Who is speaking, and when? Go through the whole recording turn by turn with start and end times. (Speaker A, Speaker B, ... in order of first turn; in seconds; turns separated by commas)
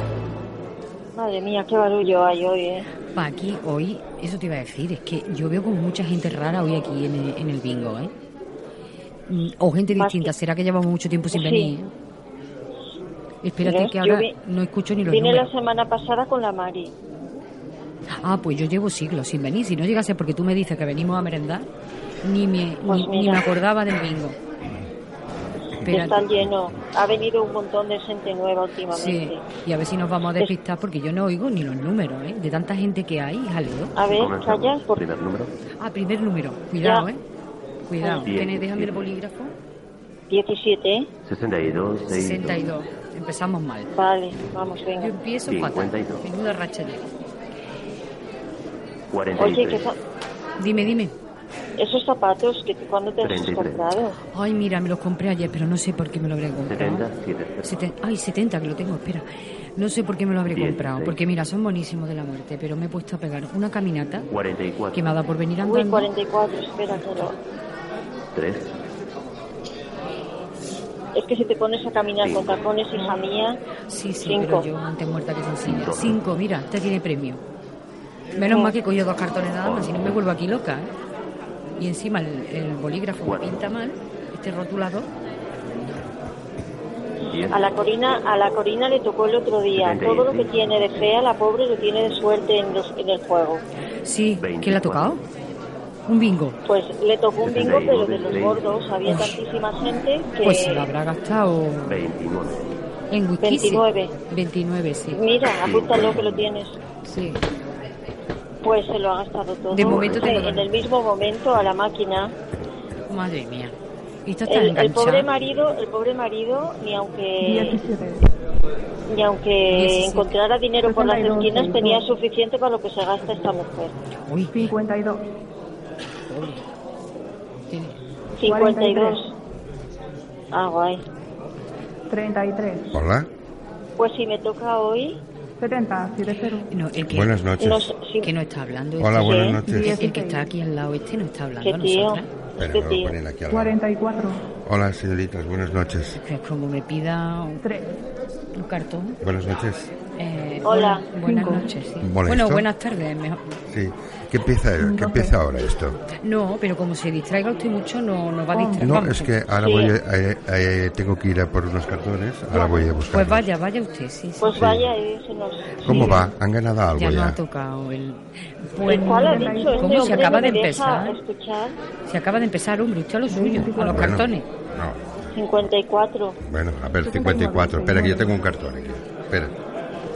Speaker A: 1.1-2.9, Speaker B: 3.1-8.1, Speaker B: 9.3-11.9, Speaker A: 10.0-10.3, Speaker A: 11.3-11.7, Speaker B: 13.4-15.5, Speaker A: 13.6-14.3, Speaker A: 15.1-16.9, Speaker B: 18.1-21.6, Speaker B: 22.2-24.4, Speaker A: 22.9-23.5, Speaker B: 25.8-26.2, Speaker A: 25.9-29.4, Speaker B: 28.9-33.9, Speaker A: 34.0-35.0, Speaker C: 34.0-35.5, Speaker B: 35.8-37.2, Speaker A: 36.8-37.1, Speaker B: 37.9-39.5, Speaker A: 38.0-38.3, Speaker C: 38.2-39.0, Speaker A: 40.3-41.1, Speaker C: 41.2-42.7, Speaker B: 42.1-43.9, Speaker A: 43.9-45.1, Speaker B: 45.0-47.1, Speaker C: 45.5-46.2, Speaker C: 49.1-49.9, Speaker A: 49.4-49.9, Speaker B: 50.6-51.1, Speaker A: 51.8-54.2, Speaker C: 53.2-54.1, Speaker B: 54.3-57.0, Speaker C: 56.7-57.8, Speaker B: 57.6-59.2, Speaker B: 59.8-64.3, Speaker C: 60.5-61.2, Speaker C: 64.3-65.1, Speaker B: 64.9-66.1, Speaker A: 65.6-67.3, Speaker C: 68.3-68.7, Speaker A: 71.2-73.6, Speaker C: 72.2-73.1, Speaker B: 73.9-77.4, Speaker A: 74.2-74.7, Speaker C: 75.6-76.2, Speaker B: 78.3-80.9, Speaker A: 78.4-78.7, Speaker C: 79.6-80.2, Speaker B: 81.8-85.1, Speaker C: 83.2-83.6, Speaker C: 87.3-87.8, Speaker A: 87.5-93.6, Speaker C: 89.7-91.2, Speaker B: 94.0-95.2, Speaker C: 94.4-95.2, Speaker B: 96.1-96.6, Speaker A: 96.7-100.9, Speaker C: 97.4-98.8, Speaker B: 99.0-99.4, Speaker B: 100.4-102.0, Speaker C: 101.9-102.7, Speaker B: 103.1-105.2, Speaker A: 103.4-104.1, Speaker A: 105.1-106.7, Speaker C: 105.4-106.5, Speaker B: 107.0-107.4, Speaker A: 108.6-112.3, Speaker B: 109.7-110.7, Speaker C: 109.8-110.7, Speaker B: 113.1-113.7, Speaker B: 114.2-115.3, Speaker A: 114.5-117.8, Speaker D: 117.4-118.2, Speaker A: 119.1-123.9, Speaker B: 119.7-120.3, Speaker D: 120.8-122.0, Speaker B: 124.3-124.7, Speaker D: 124.5-125.2, Speaker B: 126.3-126.6, Speaker B: 127.7-128.0, Speaker D: 128.4-129.2, Speaker A: 128.4-129.3, Speaker A: 130.5-131.0, Speaker D: 132.1-133.0, Speaker E: 132.9-133.3, Speaker A: 134.0-135.2, Speaker D: 135.6-136.7, Speaker B: 136.7-137.3, Speaker E: 137.1-137.9, Speaker A: 137.6-138.3, Speaker B: 138.2-142.3, Speaker E: 139.0-140.0, Speaker A: 139.2-139.6, Speaker D: 139.7-140.5, Speaker A: 141.6-143.1, Speaker E: 142.6-143.8, Speaker D: 143.5-144.4, Speaker E: 144.6-146.2, Speaker B: 146.1-147.6, Speaker D: 147.6-148.0, Speaker B: 148.6-149.2, Speaker E: 149.2-149.9, Speaker B: 150.2-153.6, Speaker A: 150.6-151.1, Speaker D: 150.7-151.7, Speaker E: 152.0-152.7, Speaker E: 153.7-156.0, Speaker D: 154.8-155.3, Speaker B: 156.2-159.3, Speaker D: 158.5-159.0, Speaker E: 158.8-163.4, Speaker A: 159.6-159.9, Speaker A: 162.5-162.8, Speaker B: 163.1-164.6, Speaker A: 164.4-166.0, Speaker E: 164.5-164.9, Speaker E: 165.8-167.4, Speaker B: 165.8-166.3, Speaker B: 166.9-171.2, Speaker A: 168.8-171.8, Speaker D: 168.9-170.5, Speaker B: 172.1-174.4, Speaker D: 173.3-174.3, Speaker E: 173.8-175.7, Speaker A: 175.3-176.4, Speaker E: 176.4-179.5, Speaker D: 177.0-178.4